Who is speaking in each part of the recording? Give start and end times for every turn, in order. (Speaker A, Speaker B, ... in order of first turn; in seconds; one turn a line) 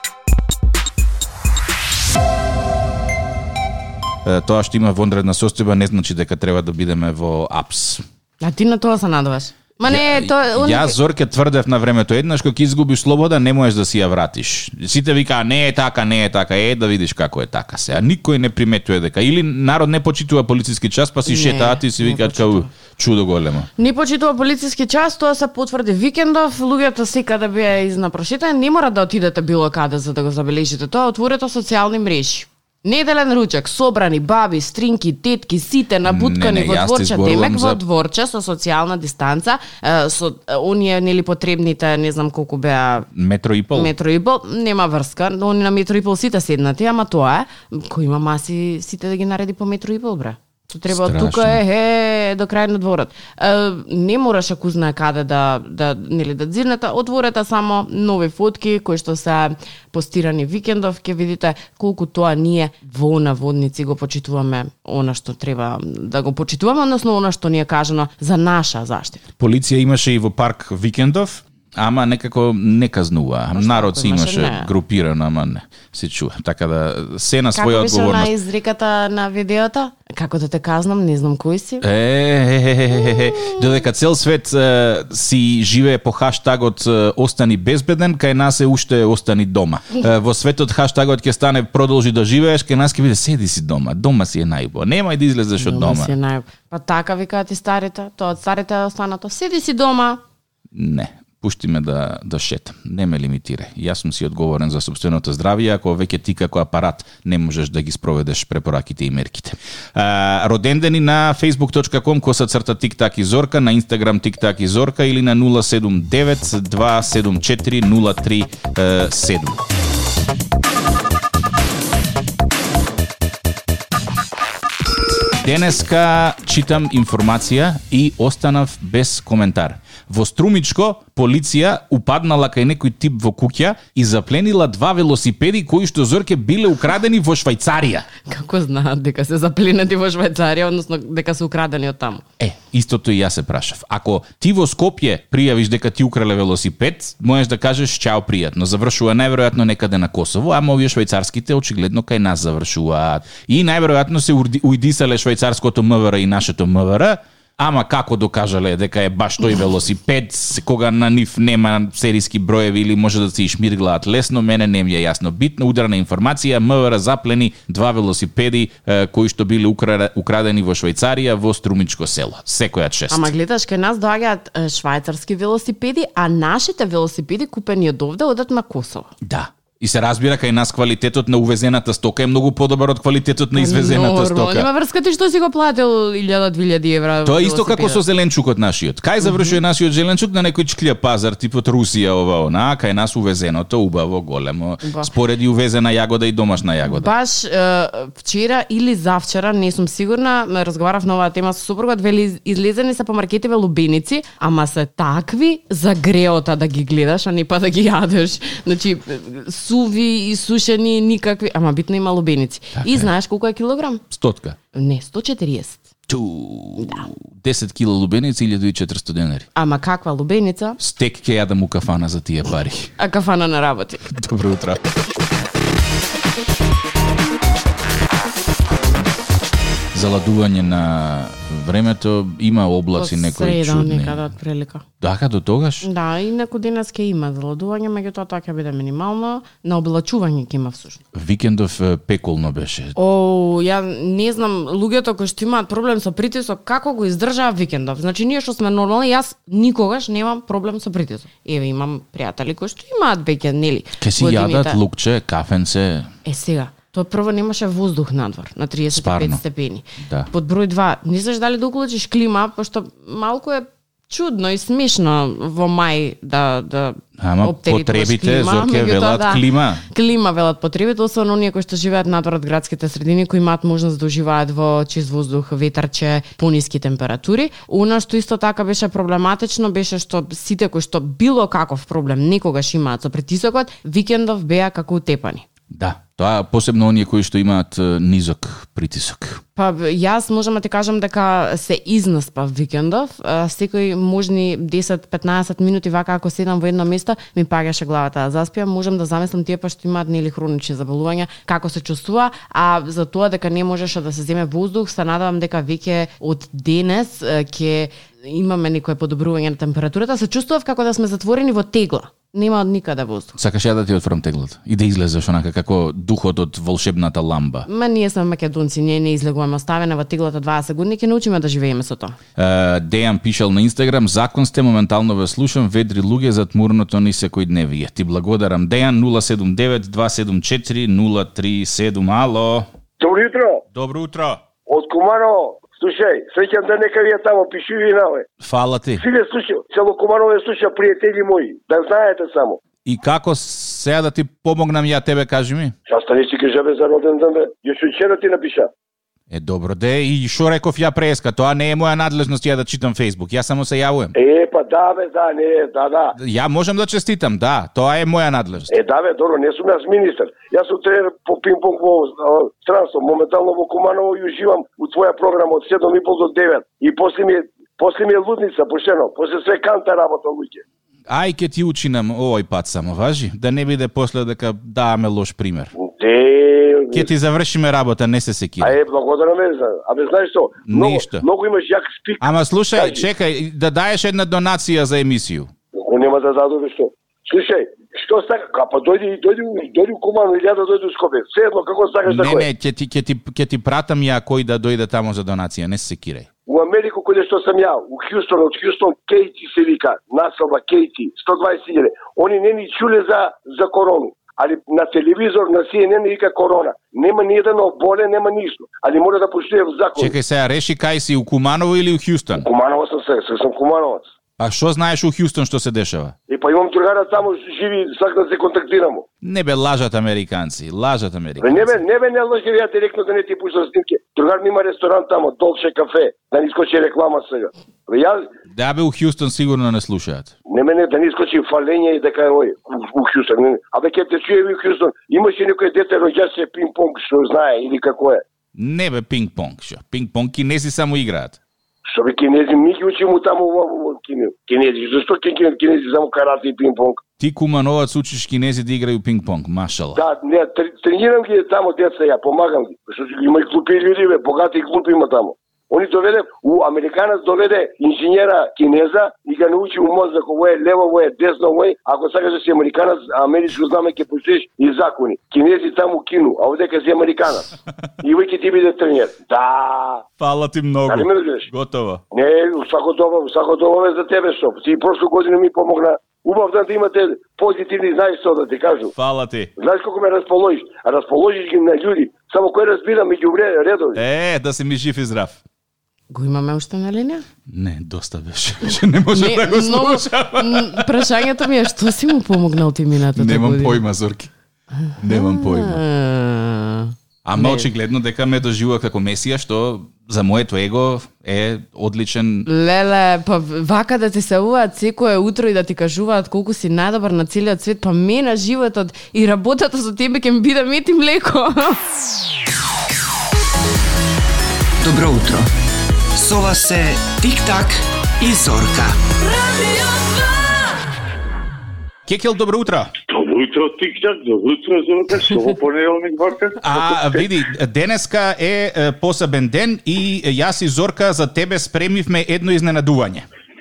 Speaker A: 4.2-8.0
Speaker B: 8.4-10.9
Speaker A: 9.8-23.7
Speaker B: 21.2-22.7
Speaker B: 23.8-43.1
Speaker A: 36.0-37.8
Speaker A: 43.1-43.9
Speaker B: 43.7-69.3
Speaker A: 50.9-51.6
Speaker A: 69.4-78.3
Speaker B: 73.5-74.7
Speaker B: 77.5-81.8
Speaker A: 81.8-96.1
Speaker B: 95.6-100.2
Speaker A: 100.7-119.6
Speaker A: 125.4-138.1
Speaker B: 138.2-142.2
Speaker A: 142.4-173.3
Speaker B: 173.1-179.1
Speaker A: 179.2-184.7
Speaker B: 183.5-188.0
Speaker A: 187.2-197.1
Speaker B: 189.2-189.6
Speaker B: 194.8-195.1
Speaker B: 196.8-214.0
Speaker A: 212.8-213.1
Speaker A: 214.1-214.6
Speaker B: 214.7-215.8
Speaker A: 216.1-219.5
Speaker B: 219.5-220.8
Speaker A: 220.8-222.9
Speaker B: 223.0-224.0
Speaker A: 224.1-224.8
Speaker A: 229.9-234.2
Speaker B: 232.9-234.8
Speaker A: 235.0-235.9
Speaker B: 235.8-241.0
Speaker A: 241.1-242.9
Speaker B: 242.9-254.8
Speaker A: 254.0-256.1
Speaker B: 256.2-285.4
Speaker A: 258.9-259.4
Speaker A: 260.0-260.3
Speaker A: 267.2-269.8
Speaker A: 285.7-289.4
Speaker B: 289.6-313.3
Speaker A: 313.4-317.7
Speaker B: 317.6-322.2
Speaker A: 322.4-332.7
Speaker C: 333.0-333.6
Speaker A: 333.7-334.4
Speaker C: 334.7-338.3
Speaker A: 338.4-339.0
Speaker C: 339.0-342.6
Speaker A: 342.8-345.7
Speaker C: 345.9-348.7
Speaker A: 349.3-354.1
Speaker C: 354.1-356.1
Speaker A: 356.1-358.7
Speaker C: 358.7-370.6
Speaker A: 371.1-375.7
Speaker C: 375.8-377.1
Speaker A: 376.9-378.8
Speaker C: 378.6-383.0
Speaker A: 380.7-381.2
Speaker A: 382.2-385.5
Speaker C: 385.7-392.4
Speaker A: 392.1-396.3
Speaker C: 396.5-410.1
Speaker A: 410.0-412.5
Speaker C: 412.4-414.1
Speaker A: 414.4-416.1
Speaker C: 416.3-419.1
Speaker A: 419.2-421.8
Speaker C: 421.4-428.3
Speaker A: 428.5-430.3
Speaker C: 430.5-438.2
Speaker A: 438.6-441.4
Speaker C: 441.9-447.0
Speaker A: 447.2-450.0
Speaker C: 449.9-467.5
Speaker C: 468.0-470.0
Speaker A: 470.2-472.0
Speaker C: 470.9-471.5
Speaker C: 472.1-478.9
Speaker A: 478.9-479.5
Speaker C: 479.6-484.0
Speaker A: 483.9-485.4
Speaker B: 486.1-487.2
Speaker A: 487.5-491.5
Speaker B: 489.1-493.8
Speaker A: 493.1-494.3
Speaker B: 494.8-497.7
Speaker A: 495.0-495.8
Speaker A: 497.2-502.5
Speaker B: 502.4-511.8
Speaker D: 514.8-515.5
Speaker D: 516.1-519.0
Speaker A: 522.0-522.9
Speaker E: 523.1-527.1
Speaker A: 526.6-533.2